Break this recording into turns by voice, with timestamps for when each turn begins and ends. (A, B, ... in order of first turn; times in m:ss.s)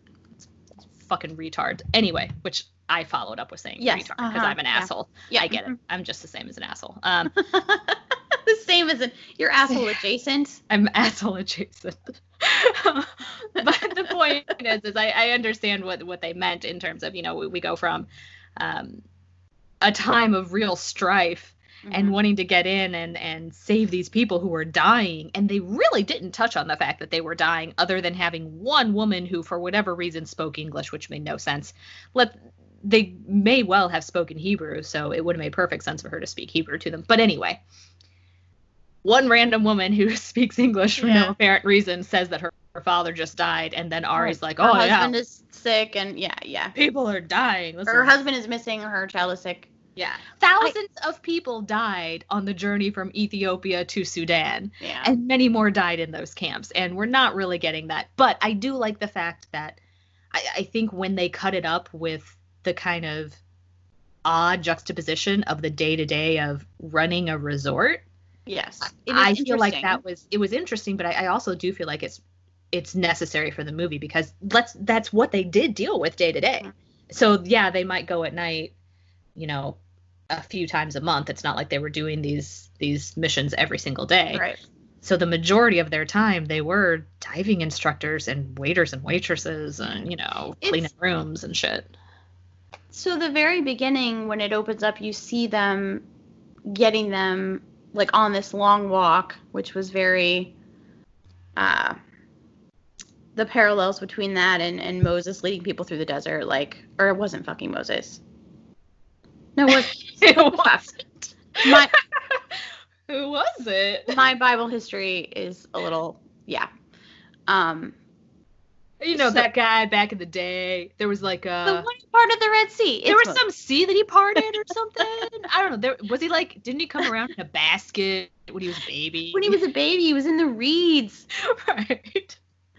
0:00.4-0:07.4 A
0:03.8-0:05.8 B
0:07.4-0:10.6 B
0:10.7-0:19.0 A
0:19.8-0:37.6 A
0:21.9-0:22.2 B
0:39.0-0:45.1 A
0:41.0-0:41.4 B
0:44.2-0:46.8 B
0:46.8-0:48.1 A
0:47.9-0:49.7 B
0:50.0-0:59.8 A
0:54.8-0:55.1 B
1:00.3-1:03.4 A
1:04.2-1:08.0 A
1:08.5-1:10.0 B
1:08.9-1:12.2 A
1:12.7-1:18.7 A
1:19.4-1:19.8 A
1:20.3-1:24.4 A
1:24.3-1:24.6 B
1:25.0-1:31.9 A
1:30.6-1:30.9 B
1:32.9-1:36.0 B
1:36.7-1:40.5 B
1:41.6-1:42.0 B
1:43.4-1:48.2 B
1:49.6-1:51.9 B
1:49.7-1:50.9 A
1:51.6-1:54.2 A
1:54.1-1:56.7 B
1:57.5-1:57.9 B
1:59.0-2:01.9 A
1:59.2-1:59.5 B
2:01.6-2:03.4 B
2:03.1-2:09.6 A
2:09.3-2:11.2 B
2:11.3-2:12.4 A